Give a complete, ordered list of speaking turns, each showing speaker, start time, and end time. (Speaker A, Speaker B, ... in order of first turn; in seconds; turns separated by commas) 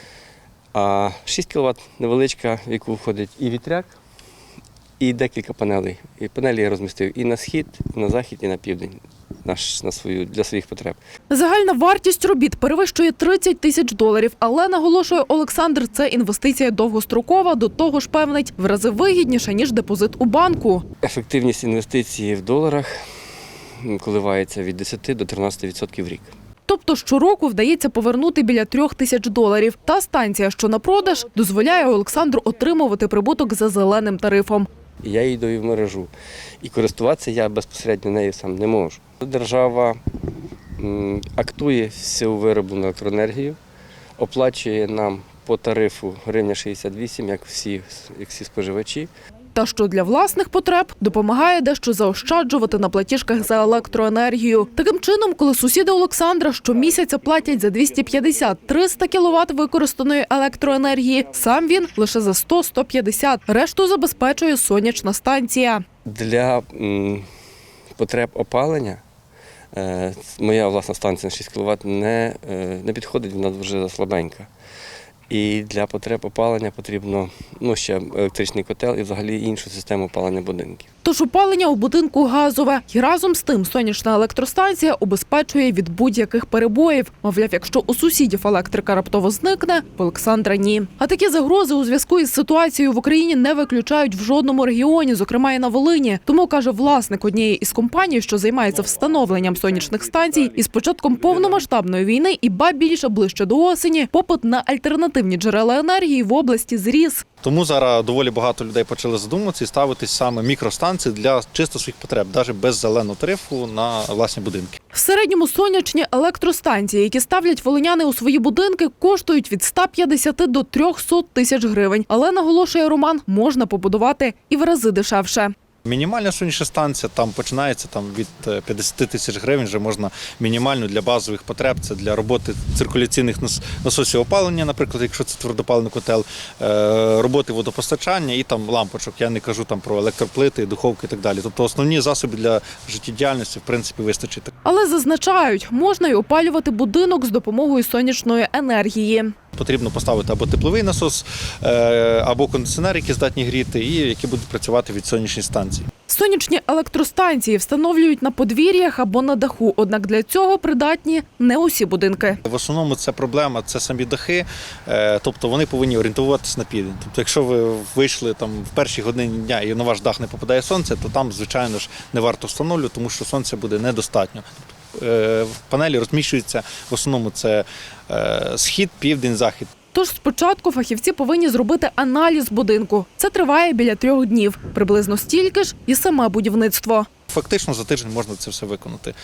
Speaker A: 0.7-3.9, Speaker A: 5.0-11.0, Speaker B: 11.3-20.8, Speaker A: 21.0-23.0, Speaker A: 23.8-26.3, Speaker B: 26.7-34.7, Speaker A: 35.0-36.1, Speaker A: 36.6-40.0, Speaker A: 40.8-43.6, Speaker A: 44.2-49.1, Speaker B: 49.5-65.8, Speaker A: 66.0-67.2, Speaker A: 68.0-69.0, Speaker A: 69.7-74.5, Speaker A: 75.3-80.9, Speaker B: 81.0-107.2, Speaker C: 107.4-114.7, Speaker B: 114.9-125.5, Speaker C: 125.8-144.5, Speaker B: 144.6-149.3, Speaker C: 149.6-155.9, Speaker B: 156.1-162.4, Speaker C: 162.4-179.7, Speaker B: 179.9-187.1, Speaker C: 187.3-189.1